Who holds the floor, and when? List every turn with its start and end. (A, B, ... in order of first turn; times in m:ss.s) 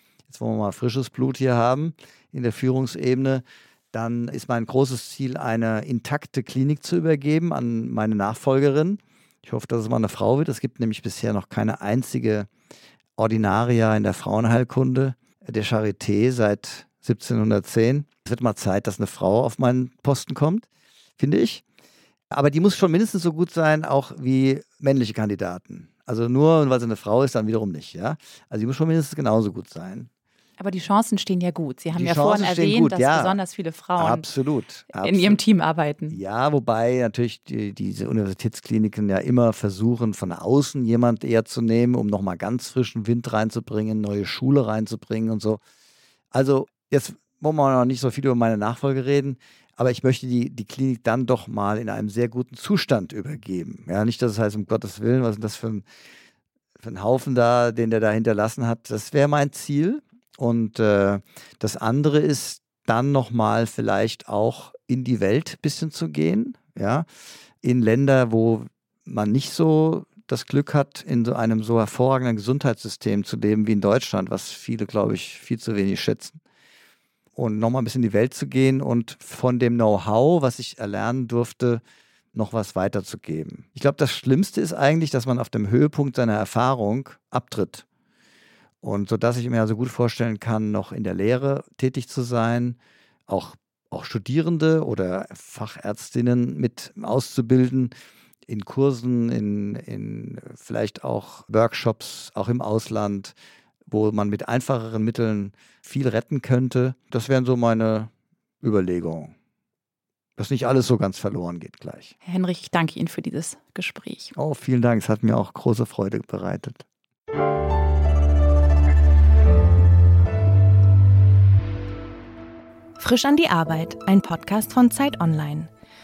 0:00.3-0:12.5 A
0:13.2-0:20.7 A
0:21.2-0:21.6 A
0:22.3-0:30.1 A
0:30.6-0:34.3 B
0:31.9-0:33.4 A
0:34.0-0:35.4 A
0:35.0-0:36.2 B
0:36.1-0:45.6 A
0:46.3-0:55.8 A
0:56.8-1:07.1 A
1:07.6-1:16.4 A
1:17.4-1:21.8 A
1:22.3-1:27.8 A
1:28.8-1:32.8 A
1:33.3-1:37.9 A
1:38.5-1:43.3 A
1:43.9-1:48.1 A
1:48.6-1:49.3 A
1:50.4-1:52.1 A
1:52.2-1:54.3 B
1:54.4-1:56.8 A
2:03.0-2:05.7 C